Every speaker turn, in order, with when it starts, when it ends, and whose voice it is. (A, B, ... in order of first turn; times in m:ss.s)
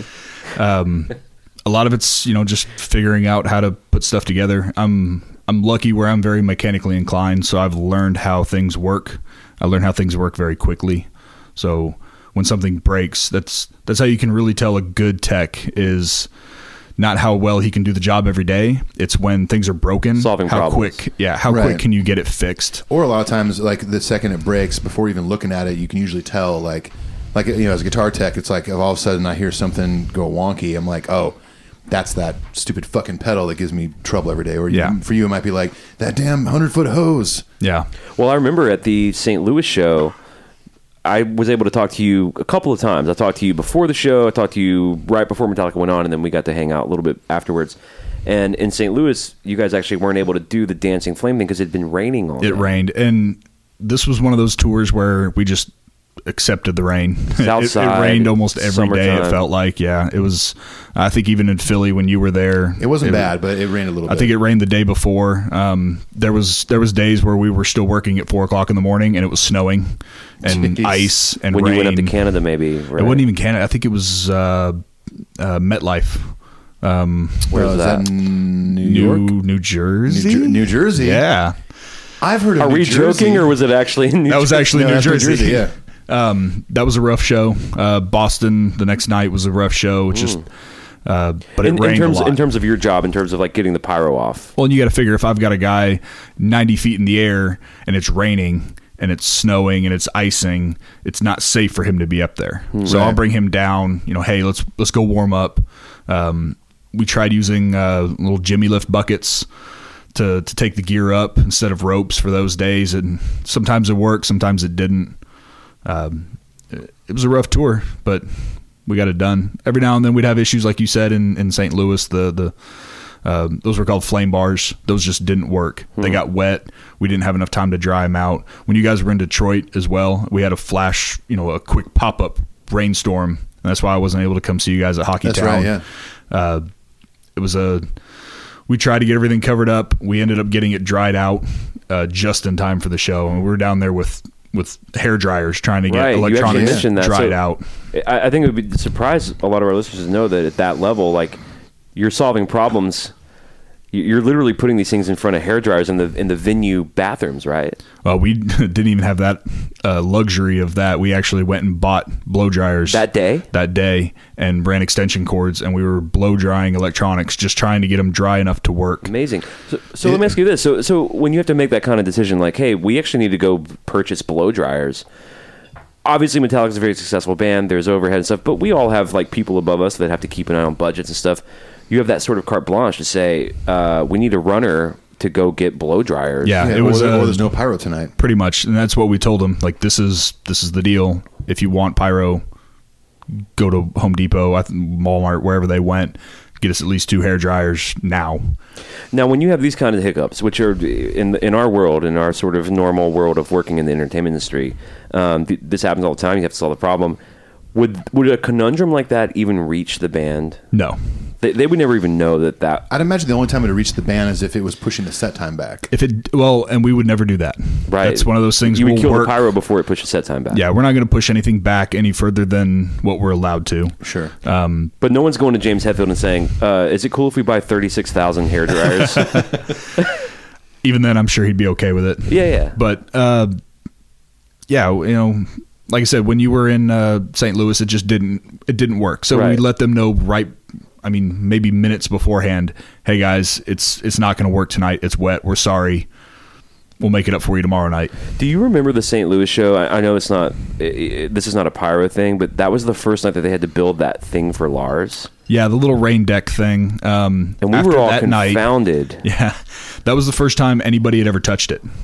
0:00.5-0:16.3 A
0:17.0-0:22.8 A
0:20.2-0:21.0 B
0:21.5-0:21.8 C
0:22.9-0:31.4 C
0:31.9-0:37.5 C
0:34.7-0:35.0 A
0:37.6-0:37.9 A
0:38.2-0:40.2 B
0:41.0-0:52.7 B
0:52.4-0:55.7 A
0:56.3-1:03.3 A
0:57.4-0:59.4 B
1:02.8-1:04.3 C
1:04.1-1:12.2 A
1:10.4-1:11.1 C
1:11.5-1:13.2 B
1:13.0-1:14.8 A
1:15.4-1:17.5 A
1:17.5-1:18.0 B
1:17.5-1:19.4 C
1:18.8-1:21.6 A
1:20.1-1:21.2 C
1:22.2-1:23.5 C
1:22.6-1:24.7 B
1:24.3-1:30.5 A
1:24.7-1:25.7 C
1:30.1-1:30.4 B
1:31.0-1:32.4 A
1:31.6-1:34.5 B
1:34.6-1:49.5 A
1:42.7-1:43.1 B
1:42.9-1:43.2 C
1:50.1-1:55.2 A
1:55.8-1:58.3 A
1:58.8-2:02.6 A
2:03.2-2:16.7 A
2:15.2-2:15.8 C
2:17.4-2:17.9 A
2:18.7-2:27.6 A
2:25.9-2:27.4 B
2:26.4-2:26.8 C
2:27.9-2:31.4 B
2:32.0-2:33.1 B
2:33.9-2:37.8 B
2:38.0-2:49.1 A
2:42.9-2:43.5 B
2:49.0-2:55.0 B
2:56.0-3:06.8 B
3:06.4-3:07.6 A
3:06.6-3:08.1 C
3:08.2-3:12.4 A
3:13.3-3:18.6 A
3:19.1-3:27.2 B
3:27.7-3:30.6 B
3:30.7-3:31.0 A
3:31.4-3:32.9 B
3:32.9-3:35.9 C
3:35.9-3:39.4 A
3:37.9-3:40.6 B
3:40.5-3:44.9 A
3:44.0-3:44.3 C
3:45.0-3:49.4 B
3:50.8-3:53.6 A
3:52.3-3:52.8 B
3:54.7-4:06.1 A
3:59.3-3:59.6 B
4:07.0-4:08.2 A
4:08.4-4:15.3 B
4:15.5-4:21.8 A
4:17.6-4:19.2 B